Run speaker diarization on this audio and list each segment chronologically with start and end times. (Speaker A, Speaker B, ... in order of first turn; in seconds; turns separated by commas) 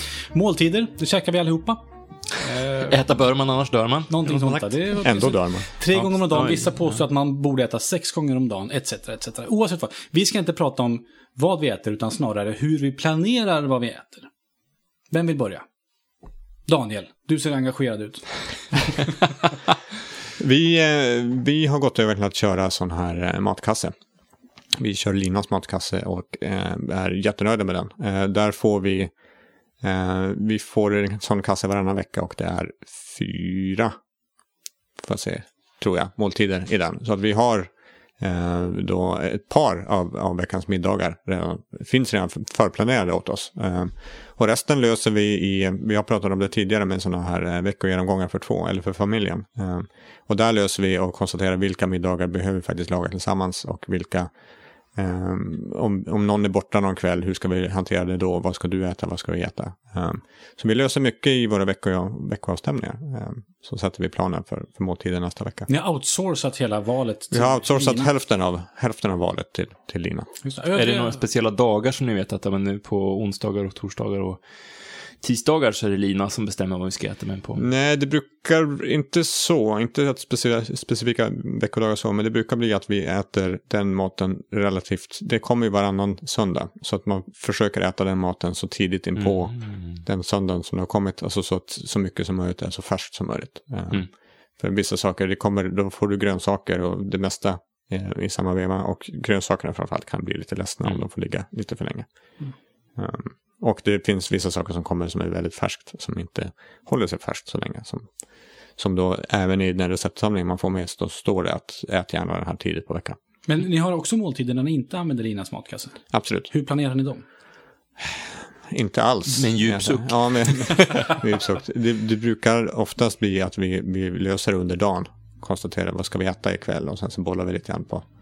Speaker A: 0.3-1.8, Speaker A: 2.3-3.0, Speaker B: 2.8-4.8, Speaker A: 4.1-14.3, Speaker C: 5.0-5.7, Speaker B: 5.9-6.9, Speaker A: 15.1-15.6, Speaker A: 16.7-19.2, Speaker C: 20.4-23.9, Speaker C: 24.8-29.1, Speaker C: 29.8-34.0, Speaker C: 35.0-54.3, Speaker C: 54.9-65.7, Speaker A: 65.7-68.1, Speaker C: 67.3-70.3, Speaker A: 70.4-71.2, Speaker B: 70.7-74.4, Speaker B: 75.2-77.6, Speaker C: 77.5-102.1, Speaker B: 89.2-90.0, Speaker C: 103.0-108.0, Speaker C: 108.8-113.2, Speaker A: 113.5-117.2, Speaker C: 116.1-116.5, Speaker C: 118.0-128.0, Speaker B: 119.3-121.2